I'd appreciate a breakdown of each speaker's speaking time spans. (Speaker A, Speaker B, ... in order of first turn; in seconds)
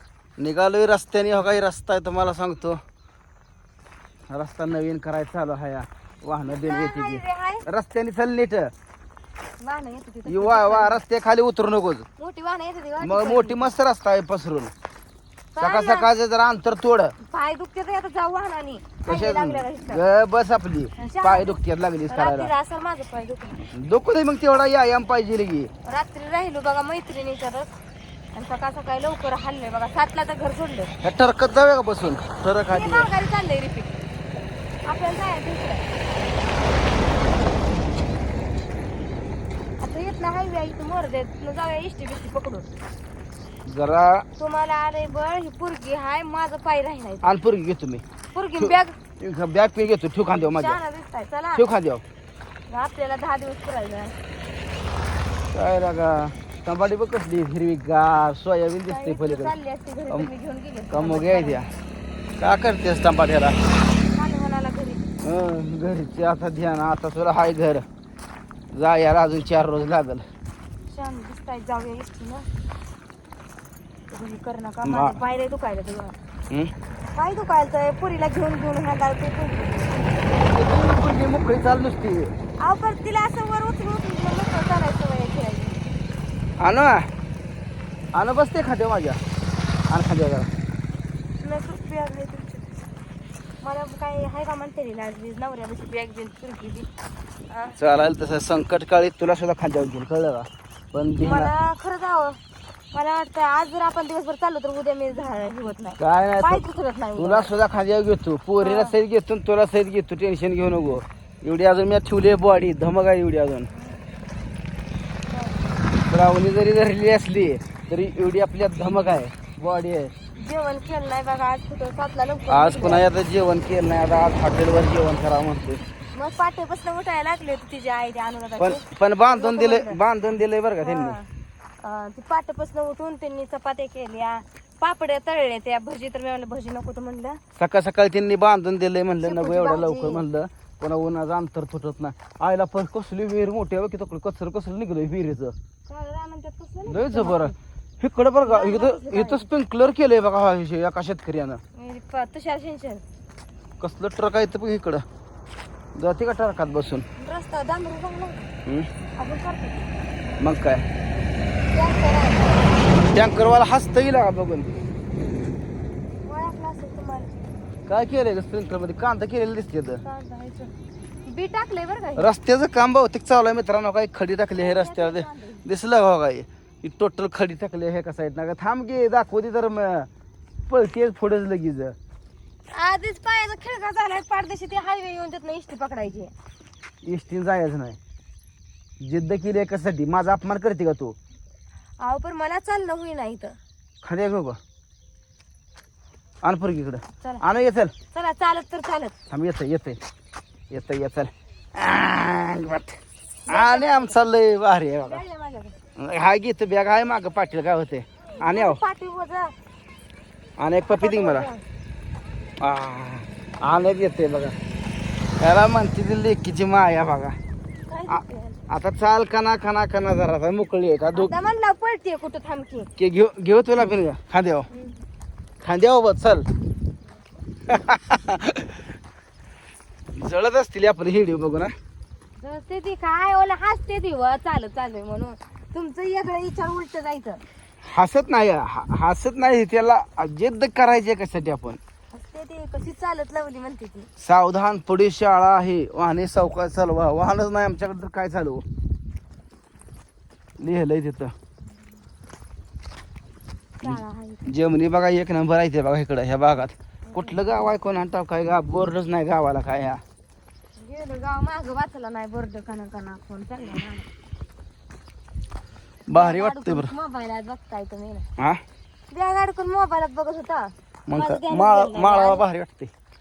Speaker A: 0.4-2.8, 4.3-8.7, 10.2-12.1, 13.0-14.7, 15.6-17.1, 19.0-22.5, 23.7-25.7, 31.0-33.1, 43.6-44.2, 47.2-48.0, 48.6-50.8, 51.5-52.0, 55.5-59.5, 60.9-61.7, 62.4-63.6, 65.2-67.8, 68.7-70.2, 74.8-75.2, 80.4-82.3, 86.6-87.1, 88.1-89.2, 89.9-90.5, 97.8-101.5, 106.0-106.6, 107.2-113.7, 116.1-120.1, 122.5-125.8, 128.6-131.2, 137.6-145.5, 146.9-151.6, 153.8-155.0, 155.9-157.0, 160.4-160.8, 163.1-164.7, 167.9-170.0, 172.2-180.1, 180.7-181.9, 187.0-188.0, 189.0-191.2, 194.0-194.6, 196.4-197.9, 199.3-200.0, 200.7-205.2, 205.9-208.8, 210.6-211.5, 212.6-214.6, 215.4-217.3, 218.1-221.3, 223.0-224.7, 225.6-226.5, 227.7-228.8, 230.1-231.7, 237.8-241.8, 244.2-248.6, 250.6-251.3, 253.8-260.0, 266.1-266.9, 271.1-272.9
Speaker B: 6.5-7.6, 9.6-11.0, 12.2-13.7, 15.5-16.1, 17.2-20.0, 20.9-23.7, 25.8-27.7, 28.3-30.9, 32.7-34.0, 34.8-35.9, 39.8-42.7, 44.4-47.3, 48.3-49.0, 50.3-51.6, 52.7-54.2, 58.9-61.6, 64.0-65.1, 70.9-72.5, 74.1-76.2, 77.1-80.0, 82.6-85.9, 91.4-92.6, 93.6-96.9, 97.5-97.8, 101.2-102.4, 102.9-107.5, 108.6-108.9, 113.7-114.0, 115.3-115.7, 120.4-123.0, 126.1-130.0, 130.8-131.3, 131.8-137.4, 139.2-140.2, 145.9-147.5, 148.4-149.5, 151.7-153.0, 157.2-158.5, 159.2-160.5, 161.7-162.8, 166.2-167.3, 170.0-170.7, 171.2-172.3, 174.5-175.7, 182.7-186.3, 192.0-193.6, 198.1-199.1, 203.5-204.2, 205.0-205.7, 208.4-209.5, 210.9-211.6, 217.9-218.6, 221.1-222.9, 224.7-225.0, 232.4-237.4, 242.1-244.1, 253.8-254.4, 257.1-257.4, 260.8-264.1, 266.1-268.3, 269.1-272.4